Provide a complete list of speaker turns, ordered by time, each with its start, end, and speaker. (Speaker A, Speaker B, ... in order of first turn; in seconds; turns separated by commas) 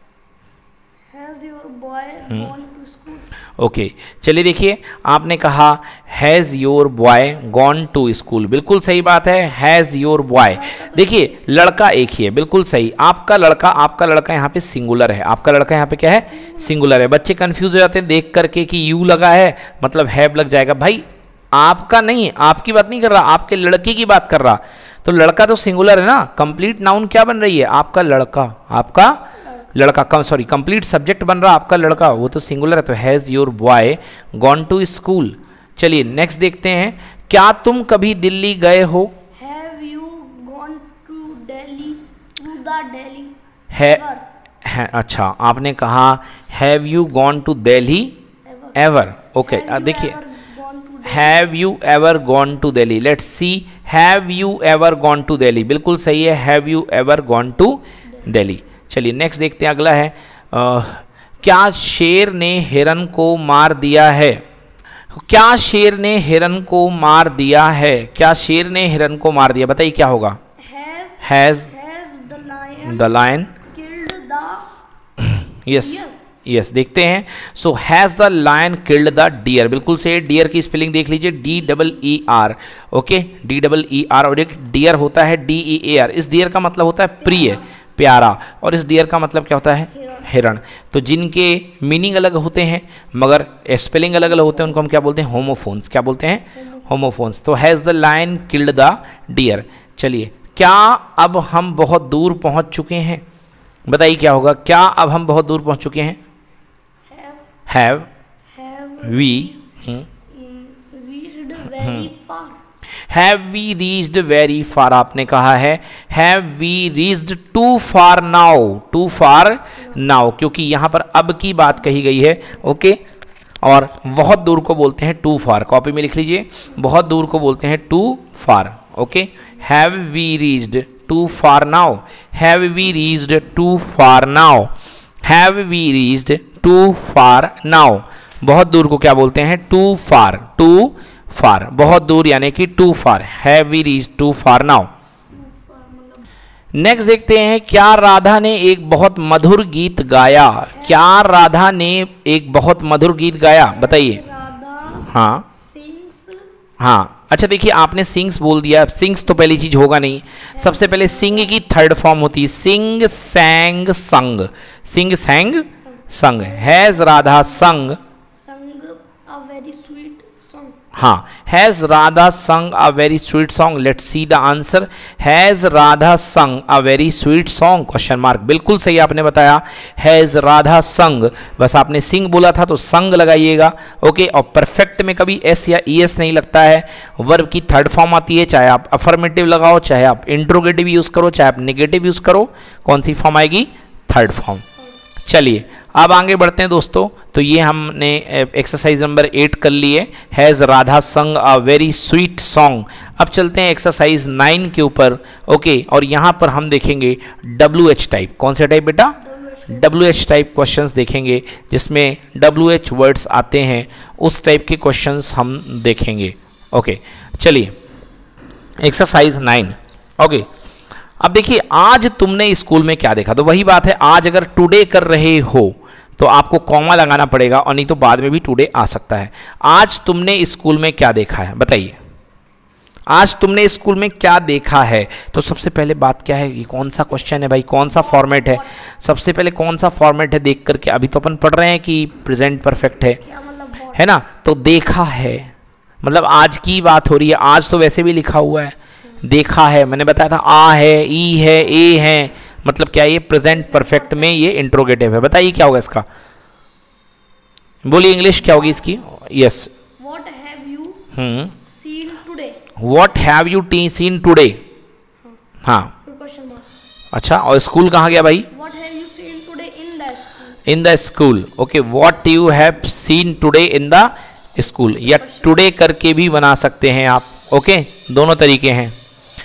Speaker A: 1.1-3.3, Speaker B: 3.6-39.1, Speaker A: 10.3-11.4, Speaker A: 16.1-16.8, Speaker A: 39.3-44.3, Speaker B: 43.7-44.0, Speaker B: 44.6-48.1, Speaker A: 48.4-48.9, Speaker B: 48.7-50.2, Speaker A: 49.4-51.5, Speaker B: 51.0-64.4, Speaker B: 65.1-70.4, Speaker A: 70.6-74.7, Speaker B: 71.2-71.7, Speaker B: 72.8-73.5, Speaker B: 75.2-103.2, Speaker A: 75.7-76.1, Speaker A: 87.2-87.6, Speaker A: 89.9-90.3, Speaker A: 94.2-95.2, Speaker A: 96.5-96.9, Speaker B: 103.9-106.2, Speaker A: 107.0-107.5, Speaker B: 107.7-108.1, Speaker A: 108.5-109.6, Speaker B: 109.0-110.1, Speaker A: 110.3-112.6, Speaker B: 111.8-112.1, Speaker B: 113.1-123.0, Speaker B: 123.6-144.9, Speaker A: 145.3-146.3, Speaker B: 146.7-154.2, Speaker A: 150.7-151.2, Speaker A: 153.7-156.5, Speaker B: 155.0-155.4, Speaker B: 156.8-168.0, Speaker A: 160.5-161.6, Speaker A: 165.7-170.8, Speaker B: 170.9-194.6, Speaker B: 195.2-209.2, Speaker A: 209.2-210.0, Speaker B: 209.7-217.7, Speaker B: 218.8-220.5, Speaker B: 221.2-232.0, Speaker B: 233.1-243.2, Speaker A: 237.9-238.9, Speaker A: 243.1-244.1, Speaker B: 243.9-245.5, Speaker B: 246.0-256.1, Speaker A: 253.4-254.4, Speaker B: 257.8-259.7, Speaker A: 258.4-258.8, Speaker A: 260.0-262.6, Speaker B: 261.1-261.6, Speaker B: 262.8-264.6, Speaker B: 265.6-265.9, Speaker A: 266.0-266.7, Speaker B: 267.1-268.5, Speaker A: 268.5-270.6, Speaker B: 270.6-278.9, Speaker A: 275.1-275.7